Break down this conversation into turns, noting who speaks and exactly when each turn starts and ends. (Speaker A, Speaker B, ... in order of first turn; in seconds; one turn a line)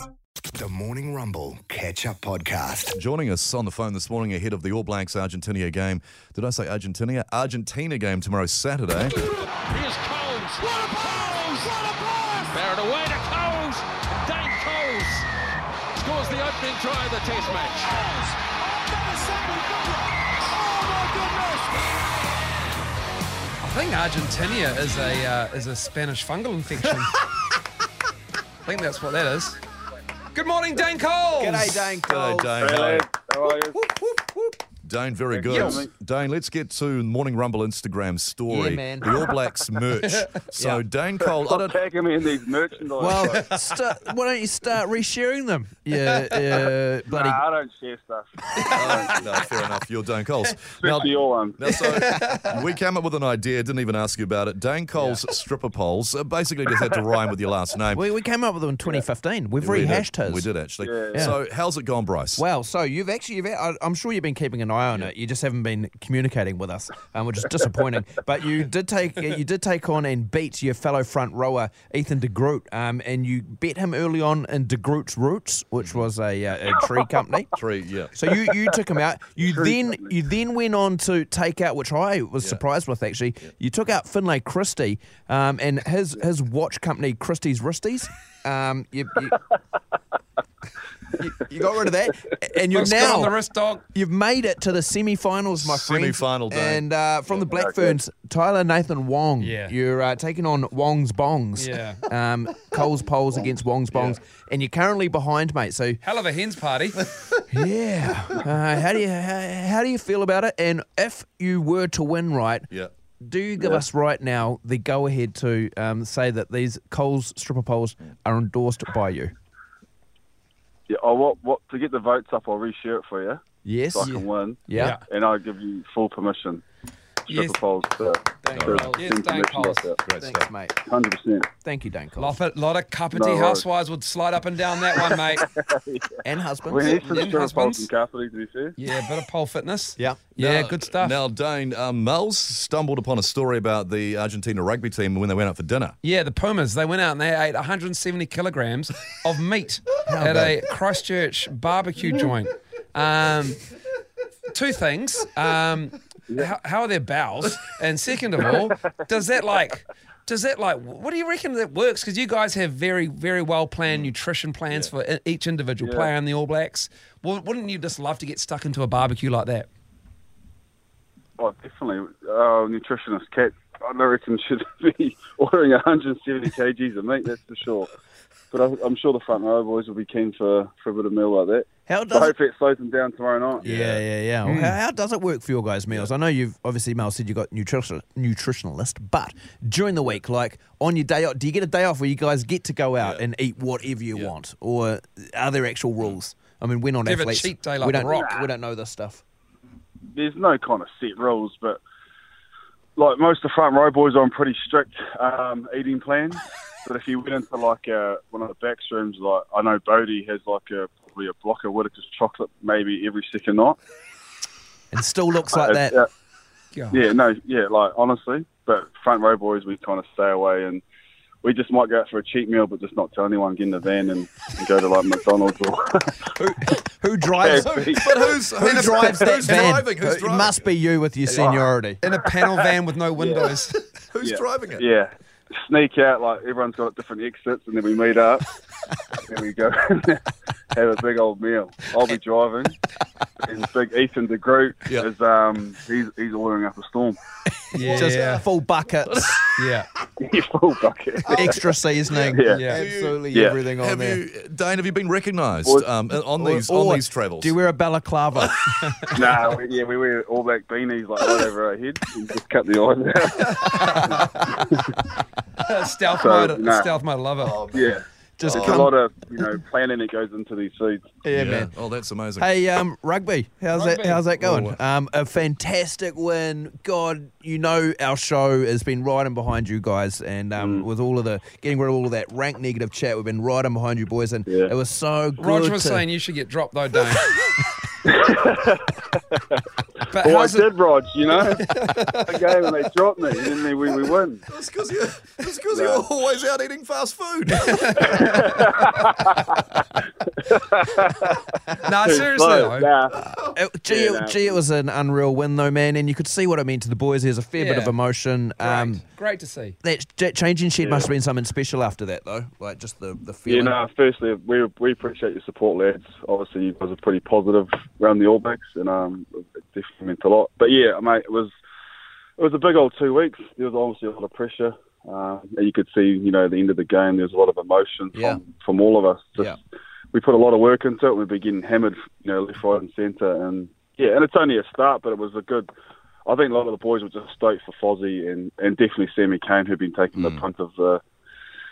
Speaker A: 0.5-3.0
Speaker B: 2.9-9.2
Speaker C: 9.7-15.3
Speaker C: 16.0-21.9
Speaker D: 19.4-19.7
Speaker D: 20.7-21.4
Speaker E: 23.6-27.1
Speaker E: 28.6-29.6
Speaker E: 30.3-31.8
Speaker D: 31.4-32.6
Speaker B: 31.6-33.1
Speaker F: 32.6-33.9
Speaker B: 33.8-41.8
Speaker F: 35.3-35.9
Speaker E: 35.5-35.8
Speaker D: 38.5-39.1
Speaker E: 40.0-40.4
Speaker D: 40.6-40.8
Speaker F: 41.2-43.4
Speaker D: 43.0-47.4
Speaker E: 43.1-43.8
Speaker E: 46.1-46.6
Speaker F: 47.1-49.4
Speaker B: 48.7-58.1
Speaker F: 50.8-52.2
Speaker E: 51.7-52.5
Speaker D: 57.9-60.5
Speaker B: 59.6-62.4
Speaker F: 60.8-61.4
Speaker D: 61.1-61.4
Speaker D: 62.4-77.5
Speaker B: 77.6-78.2
Speaker D: 78.2-89.4
Speaker F: 79.4-80.2
Speaker D: 91.2-93.3
Speaker E: 92.7-93.8
Speaker D: 93.9-106.0
Speaker B: 95.6-96.8
Speaker F: 97.3-98.0
Speaker E: 99.4-99.7
Speaker E: 101.6-102.0
Speaker E: 106.0-107.1
Speaker D: 107.5-112.7
Speaker D: 113.2-119.3
Speaker F: 113.6-113.8
Speaker F: 120.9-123.4
Speaker D: 123.6-125.0
Speaker F: 123.9-126.6
Speaker E: 124.8-125.0
Speaker F: 127.3-130.0
Speaker E: 127.3-127.6
Speaker D: 128.4-129.1
Speaker B: 128.5-128.9
Speaker E: 128.9-129.9
Speaker B: 130.1-130.5
Speaker D: 130.2-130.8
Speaker F: 130.8-131.5
Speaker D: 131.6-132.4
Speaker E: 132.2-135.5
Speaker F: 133.1-133.7
Speaker F: 134.9-138.8
Speaker D: 136.2-137.2
Speaker E: 136.8-137.9
Speaker E: 138.8-141.2
Speaker B: 140.4-145.9
Speaker E: 146.0-153.7
Speaker D: 150.1-150.6
Speaker E: 154.5-169.7
Speaker F: 165.8-166.1
Speaker F: 171.4-177.9
Speaker F: 178.5-183.6
Speaker D: 181.9-182.3
Speaker B: 183.6-184.0
Speaker D: 183.6-199.2
Speaker E: 184.4-184.8
Speaker B: 193.0-193.2
Speaker E: 197.1-198.4
Speaker F: 197.9-198.4
Speaker F: 200.1-201.8
Speaker F: 203.0-213.8
Speaker D: 214.9-216.0
Speaker F: 215.5-216.1
Speaker E: 216.8-217.0
Speaker F: 216.9-220.8
Speaker F: 221.4-226.3
Speaker D: 226.4-227.7
Speaker F: 227.3-228.3
Speaker B: 227.6-230.6
Speaker D: 228.6-232.0
Speaker B: 231.3-231.6
Speaker E: 232.0-233.8
Speaker F: 233.2-233.5
Speaker B: 234.1-234.8
Speaker F: 234.2-238.5
Speaker F: 239.2-242.8
Speaker F: 243.4-247.2
Speaker D: 247.7-249.4
Speaker E: 247.7-248.4
Speaker B: 247.8-248.4
Speaker B: 249.1-249.5
Speaker E: 249.6-249.9
Speaker F: 250.2-251.8
Speaker D: 251.3-254.2
Speaker B: 252.1-253.2
Speaker F: 252.3-252.7
Speaker E: 252.5-252.8
Speaker F: 253.3-253.6
Speaker B: 253.8-257.6
Speaker D: 256.4-258.6
Speaker F: 259.1-264.8
Speaker E: 263.7-264.1
Speaker D: 263.7-264.4
Speaker E: 265.6-267.6
Speaker F: 266.1-267.0
Speaker B: 267.4-268.9
Speaker F: 267.7-271.2
Speaker D: 268.4-268.9
Speaker D: 271.2-271.7
Speaker B: 271.3-272.5
Speaker D: 272.4-286.1
Speaker E: 273.7-274.3
Speaker B: 274.4-274.8
Speaker F: 280.6-280.9
Speaker F: 284.5-284.7
Speaker E: 285.4-287.4
Speaker F: 288.1-289.4
Speaker E: 290.1-290.7
Speaker F: 290.2-291.7
Speaker E: 291.5-292.5
Speaker F: 292.2-294.4
Speaker B: 294.5-298.6
Speaker F: 295.7-296.1
Speaker E: 297.6-298.1
Speaker F: 298.0-299.6
Speaker F: 300.4-301.4
Speaker E: 301.8-302.9
Speaker F: 302.0-303.2
Speaker B: 303.2-303.5
Speaker D: 303.6-309.0
Speaker F: 303.9-304.6
Speaker E: 307.6-308.0
Speaker E: 308.6-309.8
Speaker D: 309.8-313.8
Speaker F: 310.8-311.1
Speaker F: 313.5-321.5
Speaker F: 322.4-329.6
Speaker D: 328.1-328.4
Speaker F: 330.1-335.7
Speaker F: 336.3-341.0
Speaker B: 340.2-340.4